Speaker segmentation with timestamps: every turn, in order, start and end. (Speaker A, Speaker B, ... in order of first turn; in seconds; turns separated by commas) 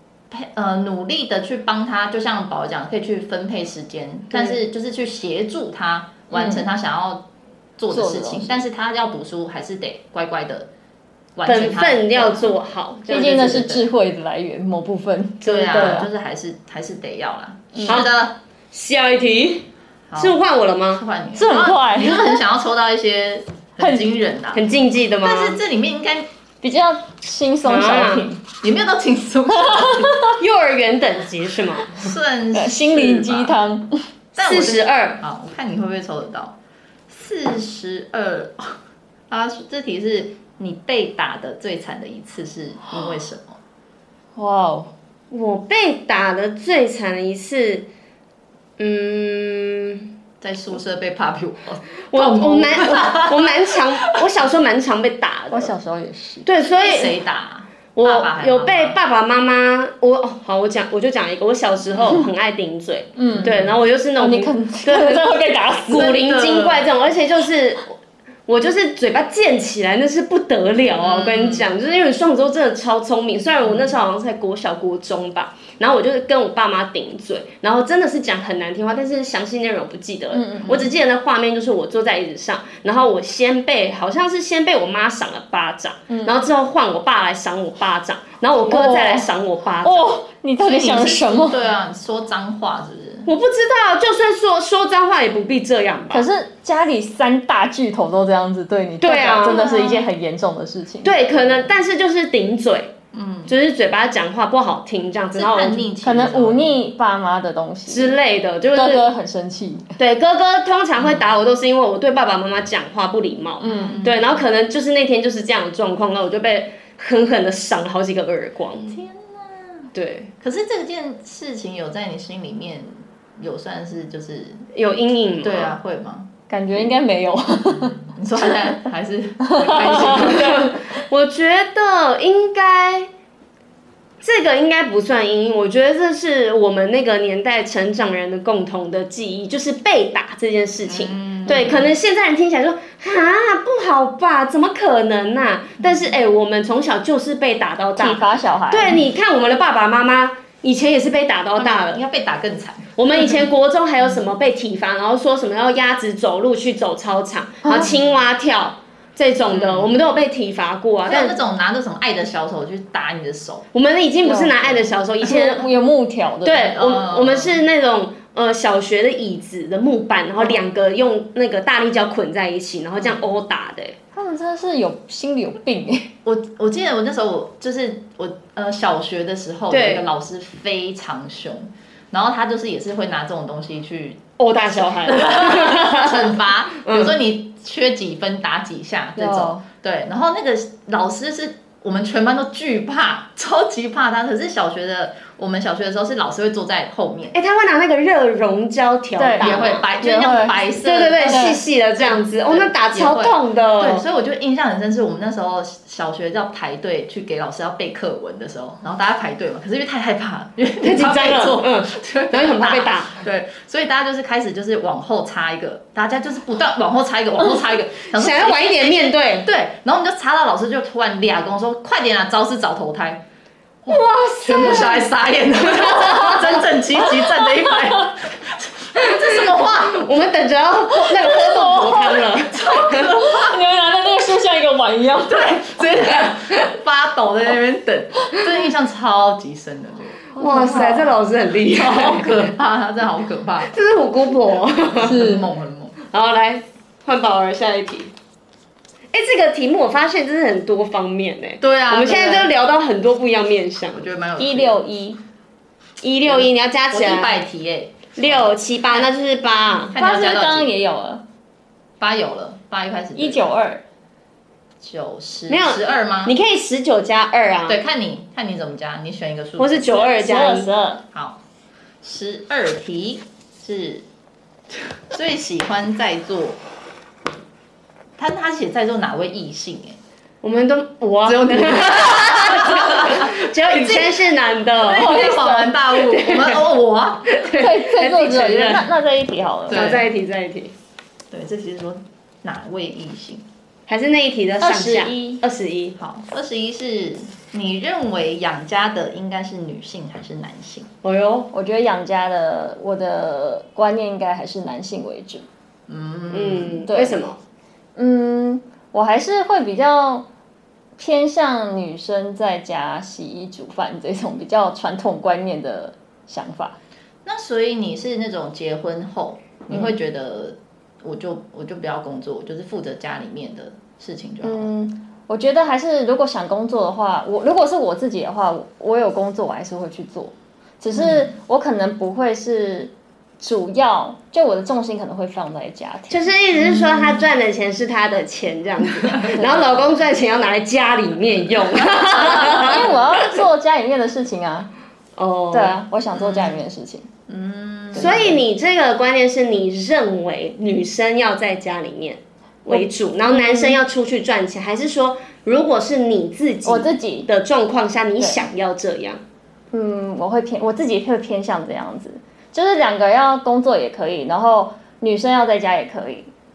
Speaker A: 0.3-7.3, Speaker B: 6.3-6.7, Speaker A: 7.8-10.7, Speaker B: 7.9-8.6, Speaker A: 11.4-12.5, Speaker C: 11.5-13.6, Speaker A: 13.1-13.9, Speaker B: 13.1-16.1, Speaker A: 15.4-18.4, Speaker C: 15.5-16.0, Speaker B: 17.7-18.1, Speaker C: 18.7-21.0, Speaker A: 20.1-20.4, Speaker A: 20.9-24.7, Speaker B: 21.4-22.4, Speaker B: 23.8-24.1, Speaker C: 24.5-25.6, Speaker A: 25.2-26.3, Speaker B: 26.6-28.4, Speaker C: 27.7-28.3, Speaker A: 28.6-30.3, Speaker B: 29.6-30.3, Speaker C: 30.4-32.1, Speaker A: 31.9-33.5, Speaker B: 32.5-34.0, Speaker A: 34.4-36.6, Speaker C: 34.4-35.2, Speaker A: 37.1-38.8, Speaker A: 39.3-43.6, Speaker B: 44.4-44.9, Speaker C: 45.3-47.9, Speaker C: 48.8-50.1, Speaker A: 50.4-54.2, Speaker C: 52.1-55.7, Speaker B: 55.5-56.5, Speaker C: 56.5-57.2, Speaker A: 56.7-59.0, Speaker C: 58.0-90.2, Speaker B: 63.2-63.6, Speaker A: 63.3-63.8, Speaker B: 64.2-66.3, Speaker A: 66.2-66.8, Speaker A: 71.0-71.7, Speaker B: 80.3-80.8, Speaker B: 86.1-86.4, Speaker B: 88.7-89.3, Speaker B: 89.8-91.6, Speaker A: 90.6-93.3, Speaker C: 93.3-96.3, Speaker B: 96.1-101.2, Speaker C: 99.0-99.8, Speaker A: 99.4-100.1, Speaker C: 101.0-102.9, Speaker A: 103.1-103.5, Speaker C: 103.5-105.9, Speaker A: 105.3-106.8, Speaker B: 106.0-108.2, Speaker C: 107.9-109.1, Speaker B: 108.7-110.0, Speaker C: 110.0-119.0, Speaker B: 113.6-114.0, Speaker A: 113.7-114.5, Speaker A: 118.8-124.6, Speaker C: 119.9-120.3, Speaker C: 124.8-125.8, Speaker A: 125.4-126.3, Speaker B: 126.5-128.8, Speaker A: 128.2-130.7, Speaker B: 129.4-130.6, Speaker C: 129.8-133.1, Speaker C: 134.2-152.0, Speaker A: 140.9-141.9, Speaker B: 141.5-141.8, Speaker B: 148.0-149.0, Speaker A: 151.6-153.0, Speaker C: 153.0-161.4, Speaker B: 157.7-157.9, Speaker A: 159.5-160.0, Speaker A: 161.1-163.7, Speaker C: 163.7-165.7, Speaker B: 164.2-166.8, Speaker C: 166.4-174.0, Speaker A: 166.7-167.6, Speaker B: 174.1-176.1, Speaker A: 176.2-197.4, Speaker C: 179.7-180.1, Speaker C: 184.4-187.1, Speaker B: 189.2-189.6, Speaker C: 197.3-199.9, Speaker B: 199.2-200.6, Speaker A: 199.4-223.2, Speaker C: 200.8-204.0, Speaker B: 201.2-201.6, Speaker C: 210.8-213.2, Speaker C: 218.1-219.5, Speaker A: 223.9-230.1, Speaker C: 223.9-225.1, Speaker C: 225.7-226.4, Speaker B: 227.0-228.1, Speaker C: 229.0-233.1, Speaker B: 231.0-235.9, Speaker A: 232.5-233.6, Speaker A: 235.3-240.2, Speaker B: 240.4-241.1, Speaker C: 240.4-242.5, Speaker A: 241.7-243.7, Speaker C: 243.7-245.2, Speaker A: 244.9-245.9, Speaker B: 245.0-245.5, Speaker C: 246.1-248.1, Speaker C: 249.1-254.1, Speaker A: 251.6-252.5, Speaker A: 254.0-254.8, Speaker B: 254.4-255.2, Speaker C: 256.0-257.4, Speaker A: 256.2-258.5, Speaker C: 258.2-259.9, Speaker A: 259.9-260.7, Speaker B: 259.9-261.2, Speaker A: 262.0-263.5, Speaker B: 263.2-263.8, Speaker A: 264.8-266.4, Speaker C: 265.5-267.8, Speaker A: 267.7-270.0, Speaker C: 269.6-270.7, Speaker B: 270.0-271.0, Speaker A: 271.1-271.4, Speaker A: 272.0-274.1, Speaker A: 275.1-276.6, Speaker A: 278.2-280.0, Speaker C: 280.4-286.6, Speaker A: 281.2-284.2, Speaker A: 284.8-287.4, Speaker B: 285.1-285.7, Speaker C: 287.3-288.9, Speaker B: 287.5-289.9, Speaker A: 289.7-290.1, Speaker C: 289.7-290.7, Speaker A: 291.3-293.4, Speaker C: 293.9-296.0, Speaker B: 294.6-295.4, Speaker A: 296.0-300.9, Speaker C: 301.0-301.5, Speaker B: 301.5-305.5, Speaker A: 305.9-306.9, Speaker C: 306.3-307.4, Speaker B: 306.9-307.2, Speaker B: 308.0-310.3, Speaker B: 311.0-316.8, Speaker A: 317.2-324.7, Speaker B: 324.4-336.3, Speaker A: 330.9-331.3, Speaker C: 336.1-342.9, Speaker A: 336.7-337.0, Speaker B: 339.4-339.7, Speaker A: 342.2-342.8, Speaker B: 342.2-344.7, Speaker C: 345.2-345.8, Speaker B: 345.5-347.1, Speaker A: 346.1-346.6, Speaker A: 347.3-348.4, Speaker B: 347.9-348.3, Speaker C: 347.9-359.2, Speaker B: 352.7-353.8, Speaker B: 356.6-357.3, Speaker B: 359.7-366.3